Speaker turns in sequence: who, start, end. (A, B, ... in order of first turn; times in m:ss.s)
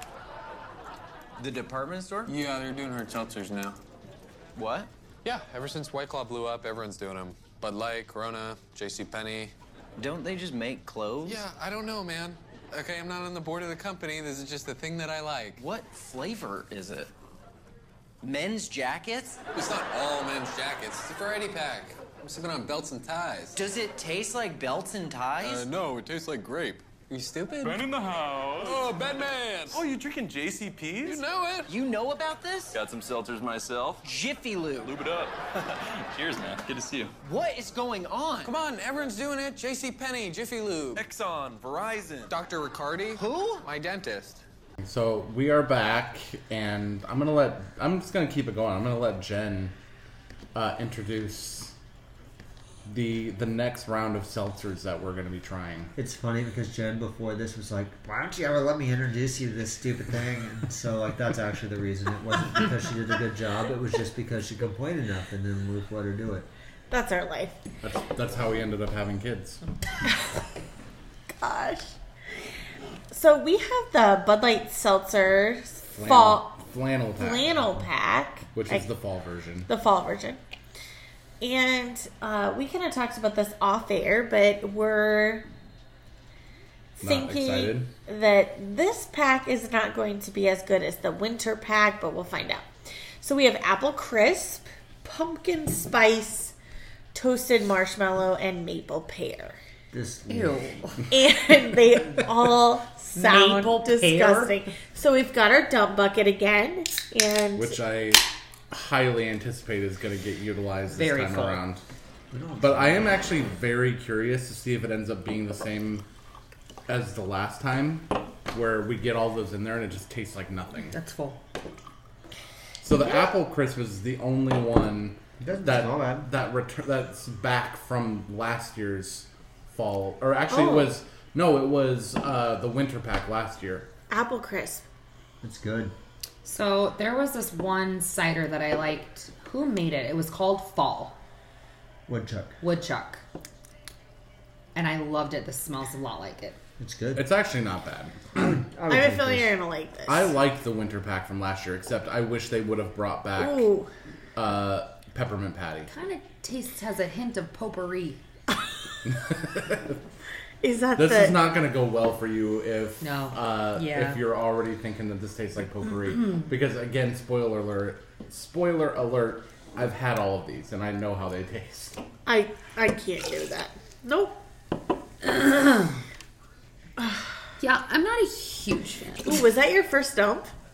0:01.4-0:02.3 A
0:02.2-0:03.8 B
0:04.5-0:04.9 A
0:05.2-0:09.5 B
0:10.0-0:11.4 A
0:11.2-0:15.6 B
0:15.6-0:17.1 A
0:18.2-0:19.4 A
0:19.5-0:23.6 B
0:23.5-0:25.6 A
0:25.4-0:27.9 B
0:27.6-0:28.8 C
0:28.6-0:29.8 B
0:29.7-0:31.2 C
0:31.0-0:31.7 B
0:31.7-0:32.8 A
0:32.7-0:34.0 C
0:34.0-0:35.0 A
0:34.8-0:37.1 C
0:37.2-0:38.5 A
0:38.4-0:41.0 B
0:40.9-0:42.4 C
0:42.3-0:44.4 B
0:43.1-0:43.6 A
0:44.8-0:49.7 D
0:50.5-0:51.7 D
0:52.8-0:55.9 D
0:56.0-1:06.5 E
1:06.9-1:07.6 F
1:07.8-1:09.6 D
1:11.3-1:11.9 F
1:13.1-1:16.5 F
1:15.9-1:17.6 D
1:17.2-1:18.8 F
1:18.5-1:19.7 D
1:19.7-1:20.4 F
1:21.4-1:25.4 F
1:27.0-1:27.9 D
1:27.0-1:36.5 F
1:37.1-1:39.6 F
1:39.9-1:40.7 E
1:40.3-1:41.0 G
1:41.1-1:47.8 F
1:43.1-1:44.5 G
1:47.6-1:51.8 D
1:50.9-1:51.6 G
1:52.3-1:53.2 E
1:52.6-1:56.0 D
1:56.9-2:00.9 D
2:00.9-2:01.4 G
2:02.8-2:13.9 D
2:05.4-2:06.3 E
2:10.5-2:10.9 F
2:14.1-2:14.8 F
2:15.4-2:15.9 E
2:16.4-2:21.2 G
2:22.1-2:22.5 E
2:22.6-2:23.2 G
2:24.7-2:26.6 G
2:26.8-2:27.3 E
2:27.1-2:28.2 D
2:28.3-2:29.5 E
2:28.9-2:30.3 F
2:30.1-2:33.7 D
2:33.4-2:33.9 F
2:34.4-2:35.9 D
2:35.9-2:38.2 G
2:39.0-2:40.0 D
2:40.6-2:41.4 F
2:41.0-2:52.0 D
2:43.0-2:44.2 G
2:52.2-2:54.4 F
2:55.2-2:56.0 G
2:57.0-2:57.2 F
2:57.6-2:59.4 G
2:59.2-3:00.5 F